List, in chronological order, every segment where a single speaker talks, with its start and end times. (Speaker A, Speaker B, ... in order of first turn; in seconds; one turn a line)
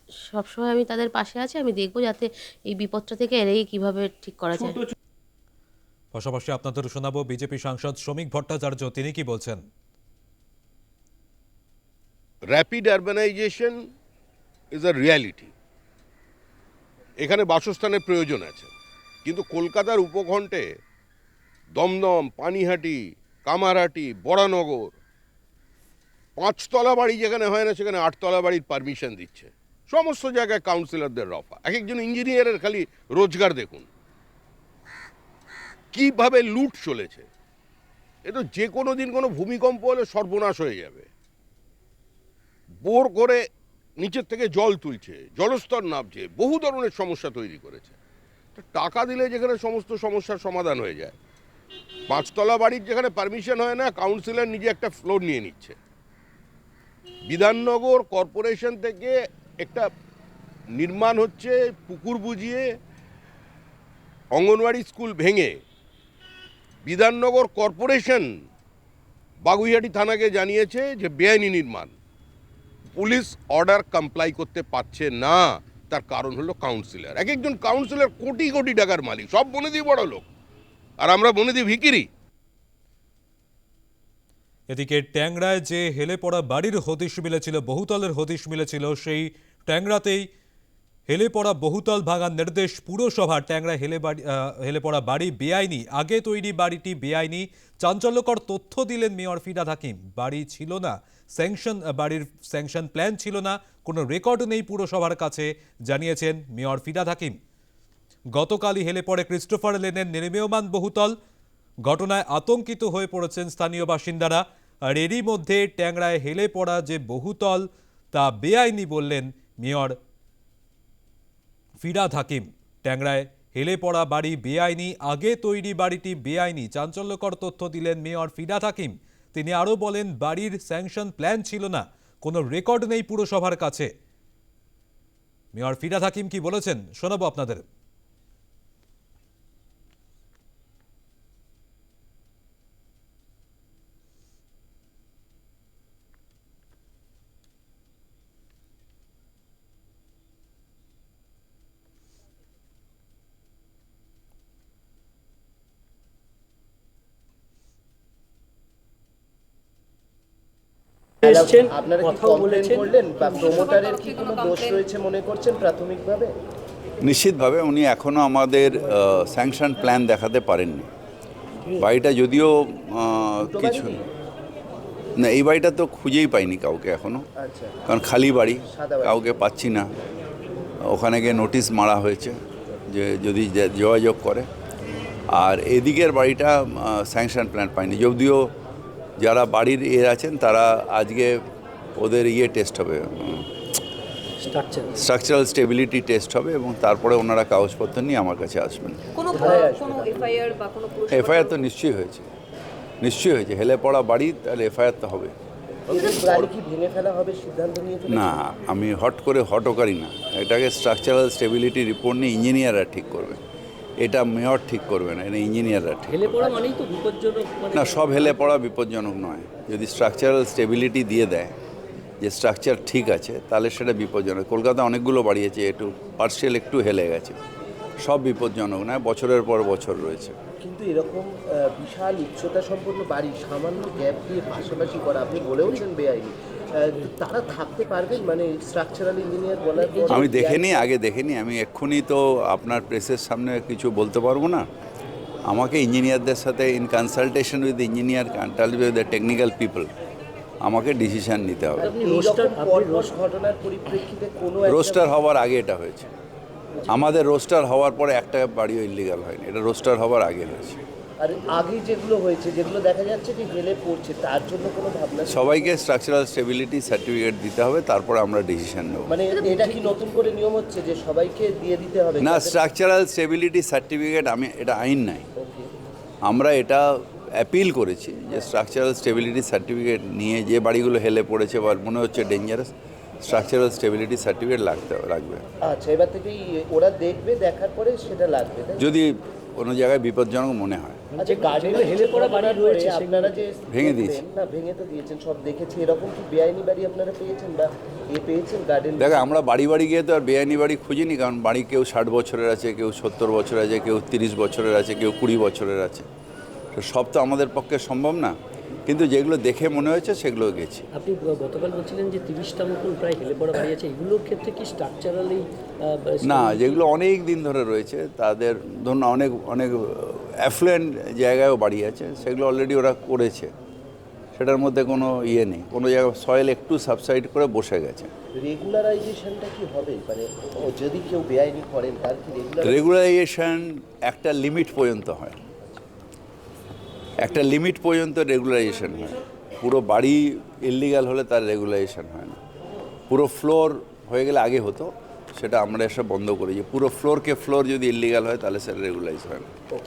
Speaker A: 0.3-4.8
Speaker B: 6.1-9.6
Speaker C: 12.5-13.8
Speaker C: 14.7-15.5
Speaker C: 17.2-18.7
Speaker C: 19.2-20.6
Speaker C: 21.8-24.9
Speaker C: 26.4-33.9
Speaker C: 35.9-37.3
Speaker C: 38.2-41.1
Speaker C: 42.8-43.4
Speaker C: 44.0-47.9
Speaker C: 48.6-51.2
Speaker C: 52.1-55.8
Speaker C: 57.3-59.9
Speaker C: 60.8-62.6
Speaker C: 64.3-65.5
Speaker C: 66.8-68.3
Speaker C: 69.4-71.9
Speaker C: 73.0-80.3
Speaker C: 81.0-82.1
Speaker B: 84.7-90.2
Speaker B: 91.1-107.4
Speaker B: 108.3-111.2
Speaker B: 111.8-120.0
Speaker B: 121.8-133.9
Speaker B: 135.5-137.7
Speaker D: 161.2-162.9
Speaker E: 161.2-166.3
Speaker F: 163.4-164.9
Speaker G: 167.0-170.9
Speaker G: 171.8-174.0
Speaker E: 173.4-174.0
Speaker G: 175.2-177.3
Speaker E: 177.4-177.8
Speaker G: 177.9-179.9
Speaker E: 178.6-179.2
Speaker G: 180.9-182.4
Speaker G: 182.9-184.5
Speaker G: 185.3-188.5
Speaker G: 189.2-191.4
Speaker G: 192.0-193.5
Speaker D: 194.4-195.0
Speaker G: 195.0-199.1
Speaker F: 199.2-201.6
Speaker E: 199.3-200.4
Speaker G: 201.1-202.3
Speaker G: 203.0-205.3
Speaker E: 205.9-208.4
Speaker G: 208.1-213.4
Speaker G: 214.0-216.6
Speaker D: 216.1-218.4
Speaker G: 217.7-221.6
Speaker G: 222.2-227.4
Speaker G: 228.0-230.4
Speaker E: 230.6-240.9
Speaker D: 239.8-240.2
Speaker G: 240.1-244.7
Speaker G: 245.5-249.9
Speaker G: 250.6-251.9
Speaker E: 251.8-255.1
Speaker D: 251.8-253.1
Speaker G: 254.7-256.1
Speaker G: 256.9-260.8
Speaker E: 261.2-265.8
Speaker G: 265.3-269.1
Speaker E: 269.1-272.6
Speaker G: 272.2-275.3
Speaker E: 275.4-275.7
Speaker G: 276.2-285.5
Speaker E: 285.6-288.8
Speaker G: 288.8-291.0
Speaker E: 291.1-299.2
Speaker D: 291.2-293.4
Speaker G: 293.7-294.2
Speaker G: 299.0-306.1
Speaker G: 306.8-308.4
Speaker G: 308.9-310.9
Speaker D: 310.9-316.8
Speaker G: 316.2-323.5
Speaker G: 324.4-328.1
Speaker E: 328.4-332.8
Speaker G: 332.6-335.4
Speaker G: 337.2-342.4
Speaker G: 343.1-349.5